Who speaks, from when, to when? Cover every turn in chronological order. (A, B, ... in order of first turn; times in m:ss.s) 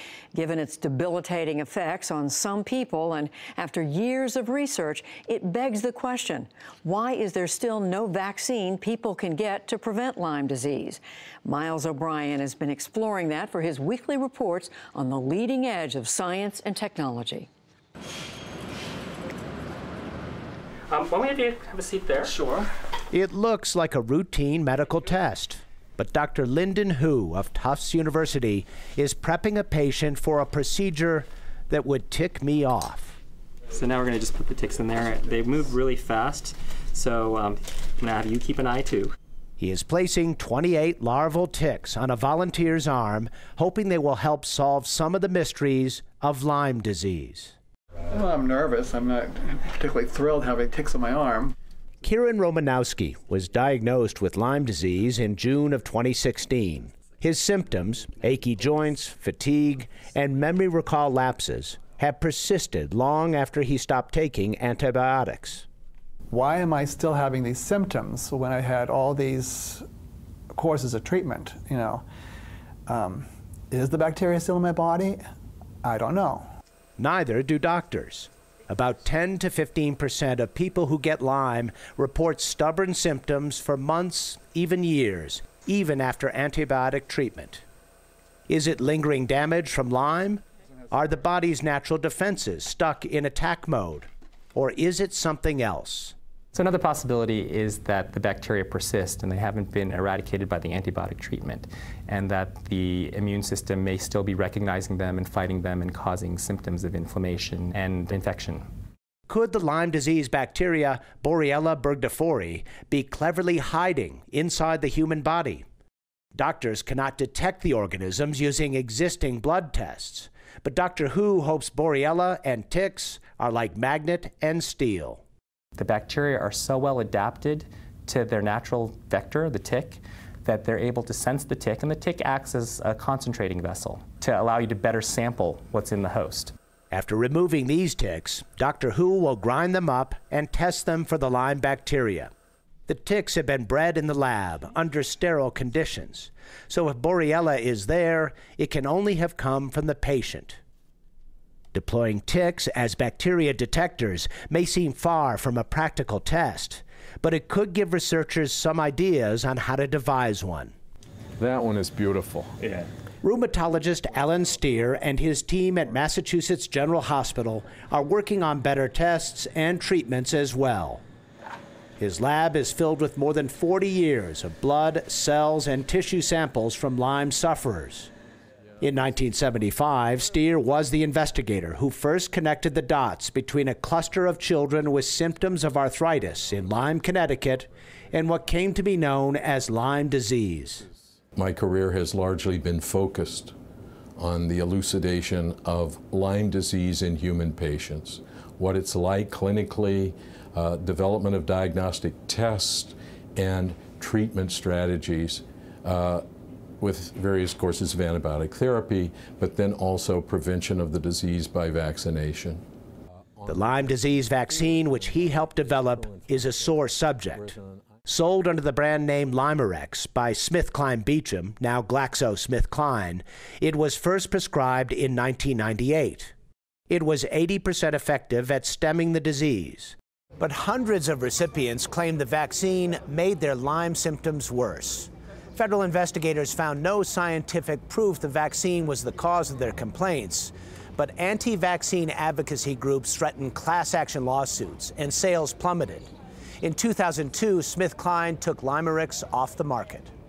0:00.3-0:17.5 A
0:20.9-0:22.6 B
0:23.1-0:33.2 C
0:33.7-0:39.1 B
0:39.6-0:47.5 C
0:48.1-0:51.5 D
0:52.0-1:05.6 C
1:06.3-1:09.8 D
1:10.5-1:12.0 D
1:12.9-1:15.2 D
1:15.8-1:16.5 D
1:17.0-1:27.6 C
1:28.5-1:36.1 C
1:36.5-1:48.6 B
1:49.3-1:55.6 C
1:56.3-2:05.2 C
2:05.8-2:16.5 B
2:16.9-2:22.3 C
2:22.9-2:30.6 C
2:31.7-2:40.7 C
2:41.4-2:42.6 E
2:43.2-2:51.0 C
2:52.0-2:58.1 C
2:58.8-3:10.8 C
3:11.3-3:13.5 E
3:14.2-3:26.2 E
3:26.8-3:32.6 E
3:33.4-3:37.8 E
3:33.5-3:37.5 C
3:38.0-3:46.3 C
3:46.9-4:06.1 C
4:06.6-4:10.1 C